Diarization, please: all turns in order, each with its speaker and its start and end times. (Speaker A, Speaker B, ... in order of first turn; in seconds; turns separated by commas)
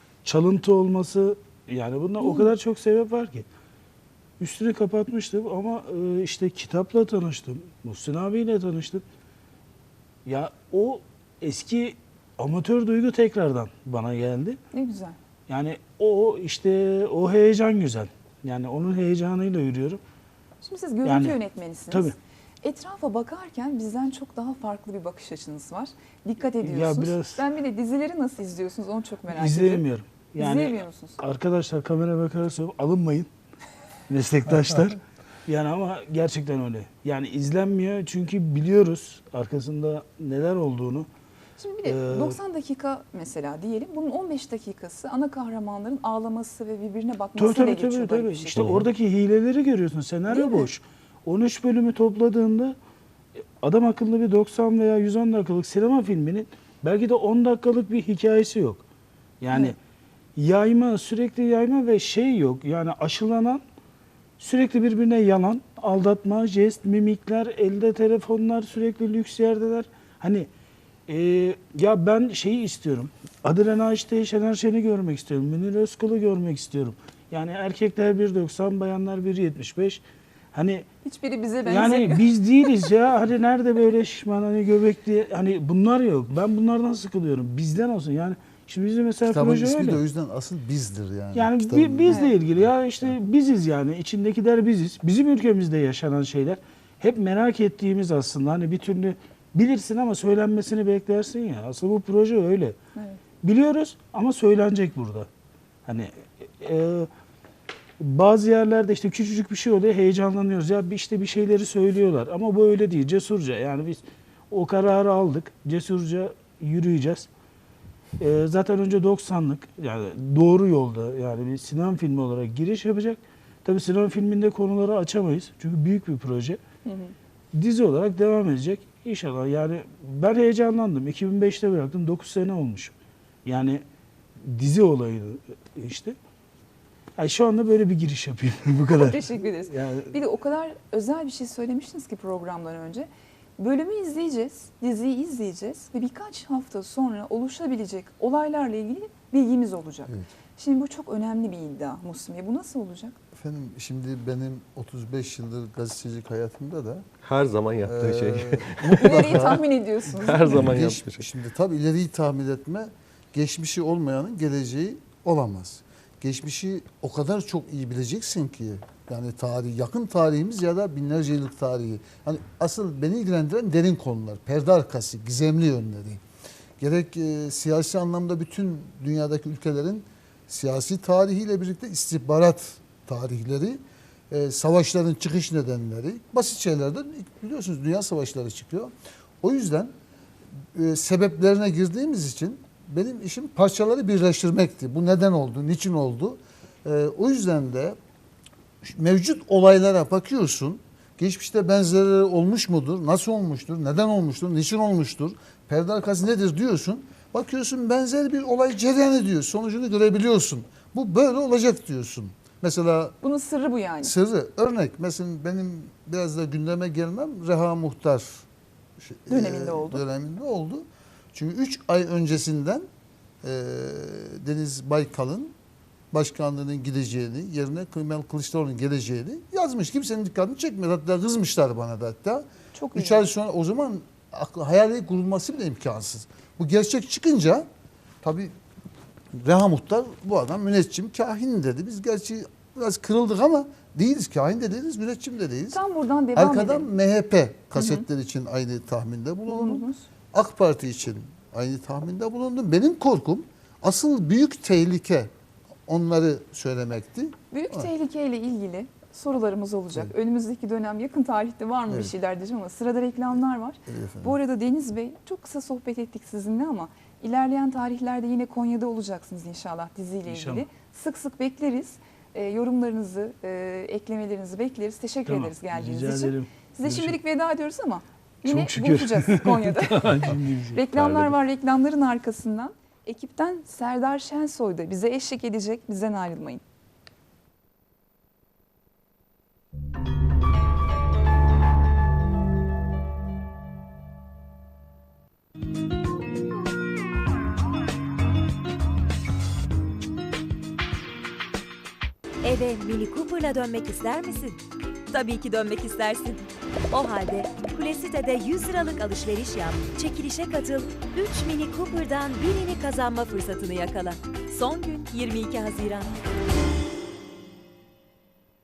Speaker A: 0.2-3.5, Speaker B: 2.2-2.5, Speaker A: 4.4-9.0, Speaker A: 10.3-14.6, Speaker B: 14.7-15.2, Speaker A: 15.5-20.0, Speaker B: 20.6-29.9, Speaker A: 21.1-21.4, Speaker A: 21.9-22.2, Speaker A: 26.6-27.4, Speaker A: 29.3-33.3, Speaker B: 30.4-31.2, Speaker A: 34.1-41.1, Speaker B: 41.6-48.8, Speaker A: 41.9-42.4, Speaker A: 47.4-52.8, Speaker B: 50.3-50.7, Speaker A: 53.6-58.8, Speaker A: 59.4-59.8, Speaker A: 60.4-63.6, Speaker A: 64.4-70.5, Speaker A: 71.1-80.0, Speaker A: 80.5-80.9, Speaker B: 81.0-82.3, Speaker A: 81.7-90.0, Speaker C: 89.3-92.6, Speaker A: 91.3-102.8, Speaker B: 92.1-92.3, Speaker A: 103.4-105.3, Speaker A: 105.9-107.1, Speaker A: 108.0-117.3, Speaker A: 118.2-126.6, Speaker B: 126.8-127.1, Speaker A: 127.5-133.8, Speaker A: 134.4-136.2, Speaker A: 137.2-140.1, Speaker B: 138.9-153.2, Speaker C: 153.3-157.1, Speaker D: 157.2-159.6, Speaker C: 157.8-159.6, Speaker B: 159.0-160.7, Speaker D: 160.1-161.3, Speaker C: 160.5-176.2, Speaker C: 176.8-189.9, Speaker C: 190.7-198.0, Speaker C: 198.8-213.2, Speaker B: 213.2-214.1, Speaker C: 214.0-218.4, Speaker C: 219.0-222.9, Speaker B: 219.3-220.0, Speaker C: 223.4-225.5, Speaker C: 226.1-237.7, Speaker B: 232.7-233.3, Speaker C: 238.2-238.5, Speaker C: 239.3-245.8, Speaker B: 245.7-246.9, Speaker C: 246.3-255.3, Speaker B: 247.8-248.0, Speaker B: 249.5-250.1, Speaker C: 255.9-257.9, Speaker B: 257.5-286.6, Speaker C: 261.9-262.1, Speaker C: 263.9-264.4, Speaker A: 270.3-270.7, Speaker A: 275.3-277.2, Speaker A: 278.4-281.2, Speaker E: 302.4-316.1